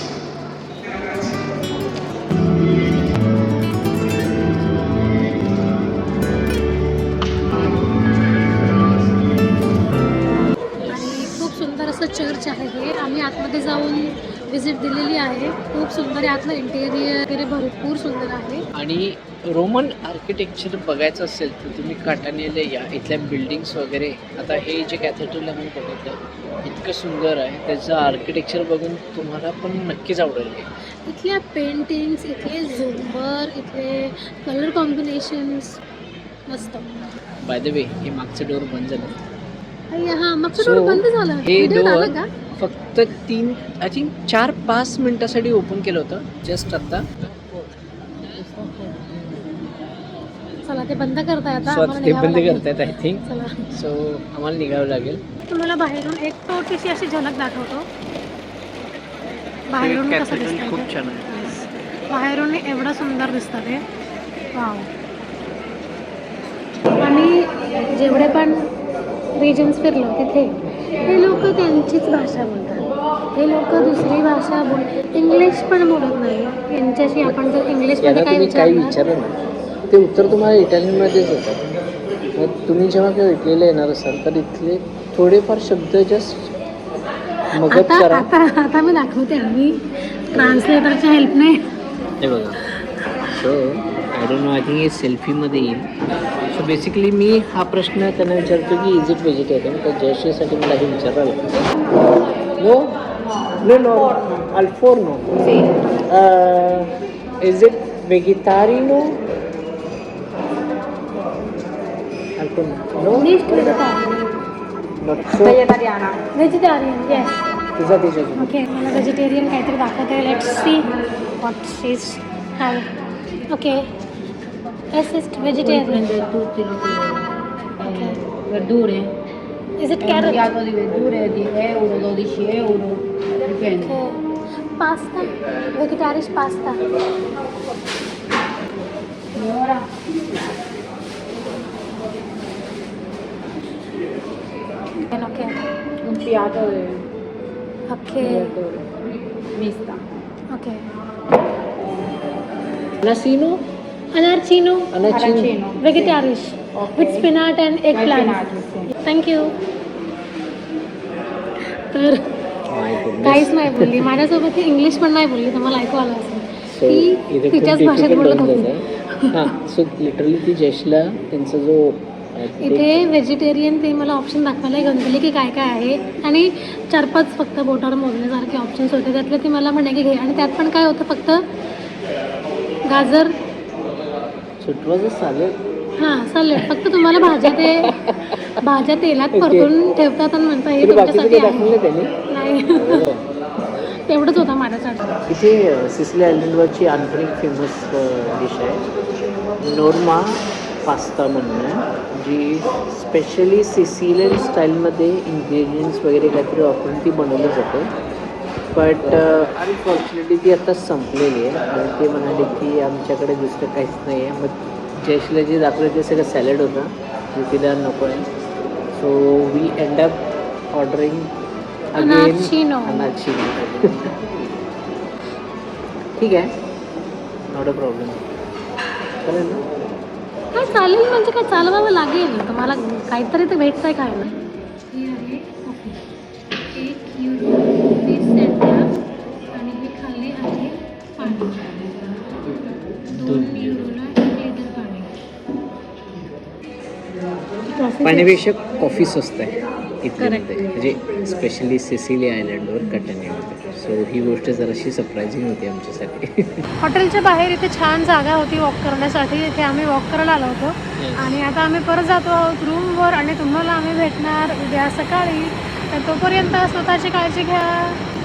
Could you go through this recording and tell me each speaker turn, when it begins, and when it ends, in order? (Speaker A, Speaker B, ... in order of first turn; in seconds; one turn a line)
Speaker A: 10.7-11.4
Speaker B: 10.9-18.6
Speaker A: 18.7-30.7
Speaker B: 31.1-35.8
Speaker B: 36.5-36.9
Speaker A: 37.4-39.2
Speaker B: 39.9-42.3
Speaker A: 40.5-47.7
Speaker A: 48.2-49.4
Speaker B: 50.6-53.6
Speaker A: 51.7-55.2
Speaker B: 55.5-57.9
Speaker B: 59.7-60.9
Speaker A: 59.7-61.7
Speaker B: 62.1-63.8
Speaker B: 64.5-64.9
Speaker B: 67.0-68.6
Speaker B: 69.4-79.0
Speaker A: 73.7-74.2
Speaker A: 78.0-81.7
Speaker A: 82.3-86.5
Speaker A: 87.5-88.3
Speaker B: 87.7-91.7
Speaker A: 90.3-90.7
Speaker A: 92.2-92.6
Speaker A: 93.3-95.8
Speaker A: 96.5-101.6
Speaker A: 102.6-102.9
Speaker A: 103.6-105.2
Speaker A: 106.1-109.2
Speaker A: 112.4-113.3
Speaker B: 113.1-114.1
Speaker A: 115.0-115.6
Speaker C: 115.4-116.2
Speaker B: 116.3-117.3
Speaker A: 117.8-118.5
Speaker B: 118.4-122.9
Speaker B: 123.5-123.8
Speaker B: 124.9-126.1
Speaker C: 125.6-129.1
Speaker B: 127.8-128.2
Speaker B: 129.8-130.5
Speaker C: 130.0-133.9
Speaker B: 133.7-134.2
Speaker B: 134.8-136.8
Speaker C: 139.3-139.9
Speaker B: 145.1-145.7
Speaker C: 146.0-147.0
Speaker B: 147.9-148.6
Speaker C: 148.2-148.9
Speaker C: 149.5-150.0
Speaker B: 150.5-150.8
Speaker A: 153.0-153.7
Speaker B: 154.1-154.9
Speaker A: 154.9-155.6
Speaker C: 155.1-156.2
Speaker B: 155.8-159.5
Speaker C: 156.7-157.3
Speaker C: 157.9-158.9
Speaker B: 161.8-162.2
Speaker A: 162.7-164.2
Speaker B: 163.2-169.3
Speaker A: 166.7-173.1
Speaker B: 172.6-181.5
Speaker B: 182.9-183.3
Speaker A: 184.6-185.6
Speaker B: 186.0-187.9
Speaker A: 186.5-188.6
Speaker B: 188.6-191.7
Speaker A: 189.3-189.7
Speaker A: 190.8-192.1
Speaker B: 192.3-193.0
Speaker A: 192.7-193.2
Speaker B: 194.1-195.1
Speaker A: 195.3-198.8
Speaker A: 199.6-207.9
Speaker A: 208.7-218.3
Speaker A: 218.9-221.3
Speaker A: 221.9-224.2
Speaker B: 222.0-223.1
Speaker A: 226.2-226.5
Speaker A: 227.5-228.2
Speaker A: 229.2-229.6
Speaker B: 230.5-234.4
Speaker B: 234.9-236.0
Speaker B: 236.7-238.9
Speaker B: 239.5-241.7
Speaker B: 243.1-245.1
Speaker A: 243.1-244.0
Speaker B: 247.7-248.4
Speaker A: 248.0-256.6
Speaker B: 250.2-250.6
Speaker B: 256.8-268.0
Speaker A: 261.0-261.4